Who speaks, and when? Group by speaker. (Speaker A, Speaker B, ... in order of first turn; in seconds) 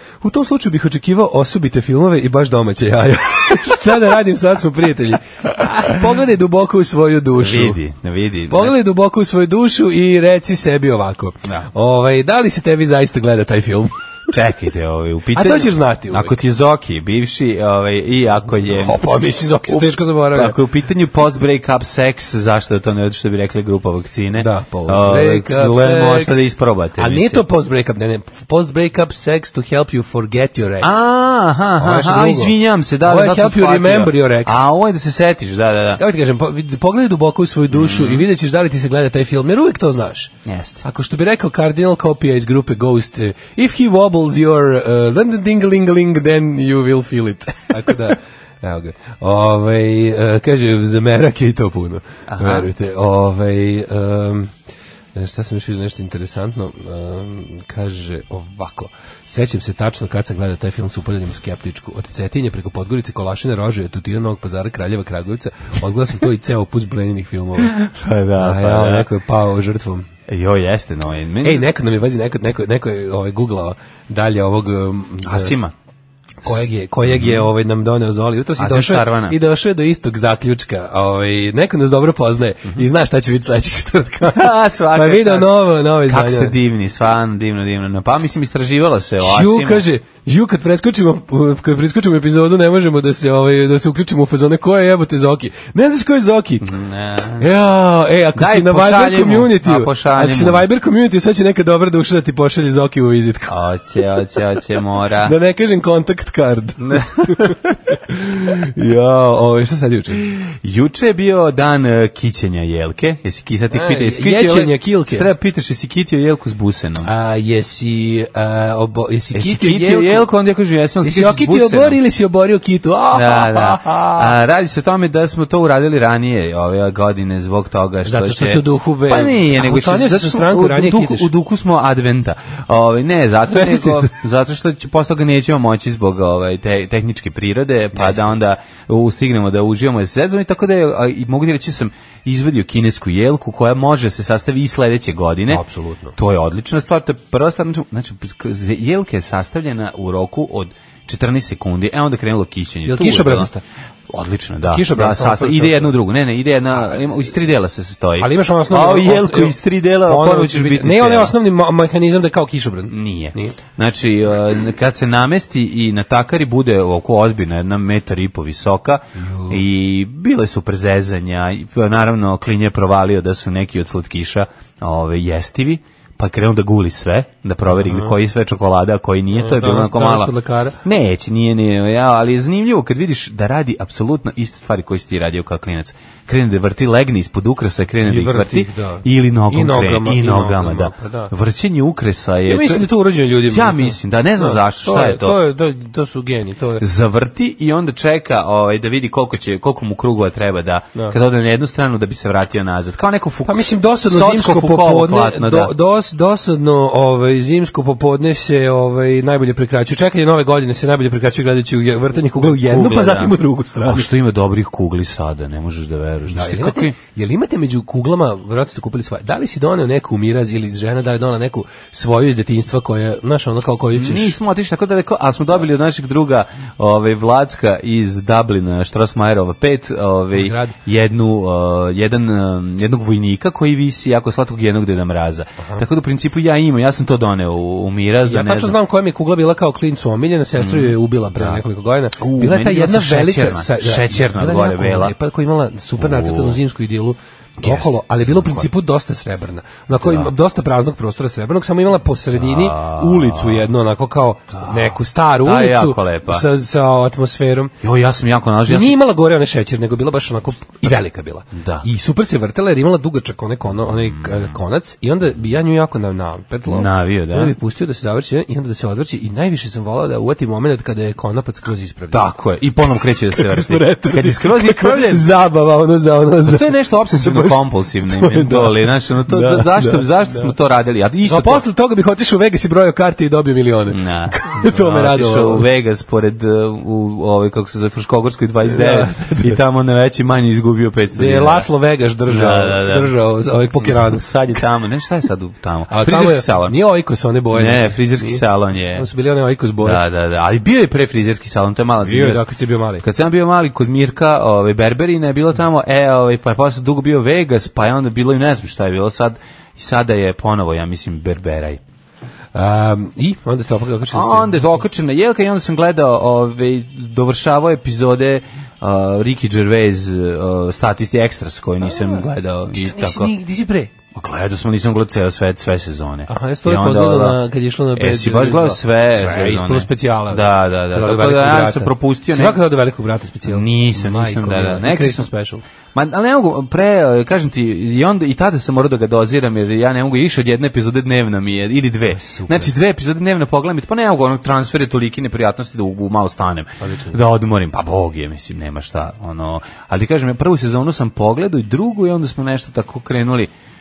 Speaker A: 0.2-7.8, 8.5-13.9, 15.3-16.4, 18.7-20.6, 24.4-26.4, 27.0-31.1, 31.8-34.6, 35.9-40.3, 40.8-54.5, 55.1-67.8, 68.4-70.1, 71.4-75.5, 76.4-86.5, 89.2-96.7, 97.4-103.5, 105.2-107.5, 108.0-110.3, 113.7-115.3, 117.0-120.3, 121.0-124.3, 128.0-131.3, 133.5-134.1, 137.9-138.4, 145.5-146.1, 152.8-153.6, 154.7-155.9, 158.2-163.6, 169.2-169.6, 177.7-178.1, 179.3-180.8, 188.0-191.3, 192.5-196.8, 203.4-214.1, 216.3-224.4, 230.3-230.8, 235.6-235.8, 238.2-257.7, 258.6-272.3, 273.3-280.5, 281.2-285.7, 288.6-289.6, 291.1-294.2, 295.9-298.4, 298.9-300.0, 302.0-303.0, 312.5-314.8, 322.7-323.9, 326.3-335.6, 342.1-342.7, 346.8-347.2
Speaker B: 7.4-8.8, 14.3-19.0, 19.7-27.4, 30.8-36.0, 37.7-38.2, 40.5-40.8, 52.3-52.7, 67.6-69.1, 70.3-71.7, 75.2-75.7, 77.0-77.5, 78.6-79.4, 84.3-89.8, 96.6-97.5, 98.3-100.6, 103.5-105.3, 106.8-107.5, 110.4-117.1, 119.3-122.0, 123.1-145.6, 146.1-153.5, 154.1-161.3, 162.9-192.9, 193.4-195.4, 196.8-205.7, 212.3-213.3, 213.8-216.9, 223.9-238.8, 240.6-241.6, 242.2-245.1, 246.0-246.6, 247.6-248.7, 250.0-250.3, 252.3-253.7, 254.6-256.4, 257.8-259.0, 261.5-261.9, 264.2-264.5, 266.7-267.6, 272.1-275.2, 276.4-281.6, 283.9-291.7, 292.3-293.1, 293.8-296.8, 297.5-299.1, 299.8-302.4, 303.0-311.8, 314.1-323.3, 324.1-327.4, 327.9-332.6, 333.4-335.3, 335.9-353.5